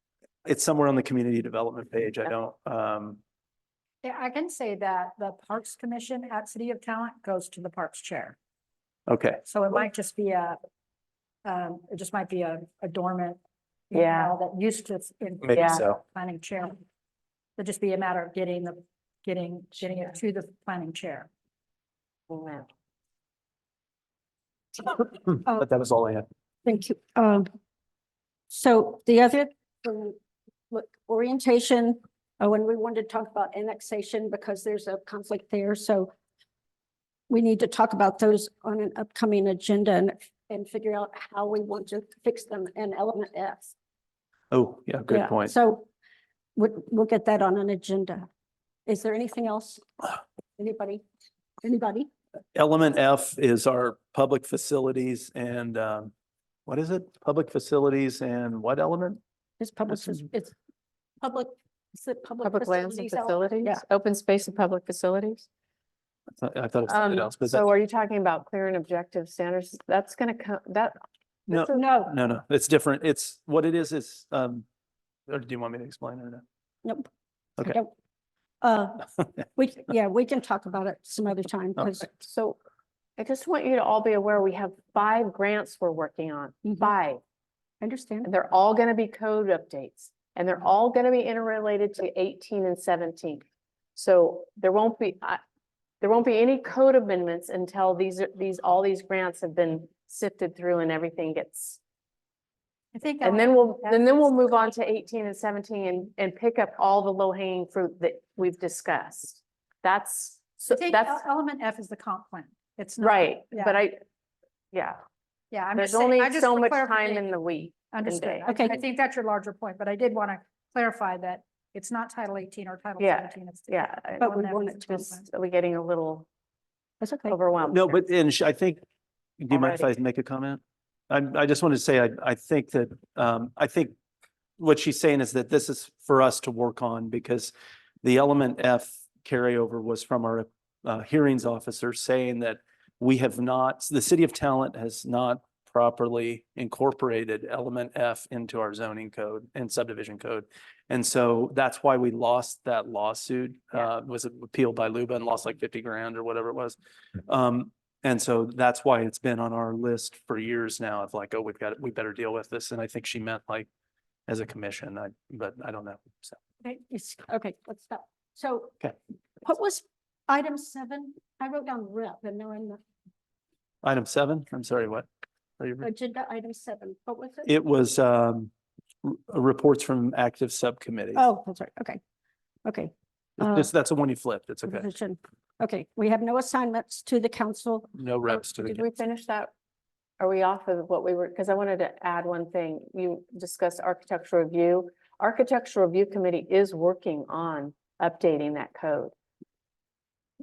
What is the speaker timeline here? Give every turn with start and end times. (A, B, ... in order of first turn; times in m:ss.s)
0:00.4-0:03.2 A
0:04.0-0:08.4 B
0:09.1-0:09.4 A
0:09.4-0:10.6 B
0:11.4-0:13.4 B
0:13.9-0:16.8 B
0:13.9-0:14.3 C
0:15.5-0:16.0 A
0:15.6-0:15.8 C
0:17.6-0:21.3 B
0:22.3-0:22.7 C
0:24.9-0:26.3 A
0:26.6-0:27.5 D
0:28.5-0:30.2 D
0:30.7-0:36.1 D
0:37.3-0:43.7 D
0:44.5-0:45.5 A
0:45.1-0:45.9 D
0:46.6-0:48.3 D
0:48.9-0:50.0 D
0:50.6-0:51.0 D
0:51.6-0:52.1 D
0:52.6-0:56.1 A
0:56.7-0:59.2 A
0:59.6-1:00.5 D
1:01.2-1:03.8 D
1:02.4-1:05.5 C
1:06.4-1:07.7 A
1:06.9-1:11.9 C
1:11.5-1:14.6 A
1:11.7-1:12.1 D
1:15.3-1:16.4 A
1:17.6-1:17.9 D
1:18.6-1:22.1 D
1:22.2-1:22.6 C
1:23.2-1:27.2 C
1:26.6-1:26.9 D
1:27.8-1:28.3 D
1:28.2-1:33.4 C
1:34.0-1:35.4 C
1:36.0-1:41.8 C
1:42.9-1:44.7 B
1:43.2-1:51.2 C
1:50.7-1:53.8 B
1:53.0-1:54.0 C
1:54.7-1:55.0 C
1:55.5-1:57.3 B
1:55.8-1:58.5 C
1:57.9-2:05.3 B
1:58.5-1:58.8 D
2:03.0-2:04.3 C
2:04.2-2:04.9 D
2:05.0-2:06.3 C
2:07.0-2:07.4 D
2:07.3-2:08.0 C
2:07.7-2:08.8 A
2:09.4-2:13.9 A
2:09.5-2:09.9 C
2:14.6-2:43.7 A
2:44.3-2:46.4 A
2:46.6-2:48.8 D
2:49.4-2:52.8 D
2:53.8-2:55.1 A
2:55.6-2:55.9 A
2:55.8-2:57.6 D
2:57.5-2:58.5 A
2:59.0-3:01.3 A
3:01.1-3:02.0 D
3:02.6-3:03.7 D
3:03.4-3:04.9 A
3:04.7-3:08.4 D
3:08.0-3:08.8 A
3:08.6-3:09.5 C
3:10.2-3:19.1 C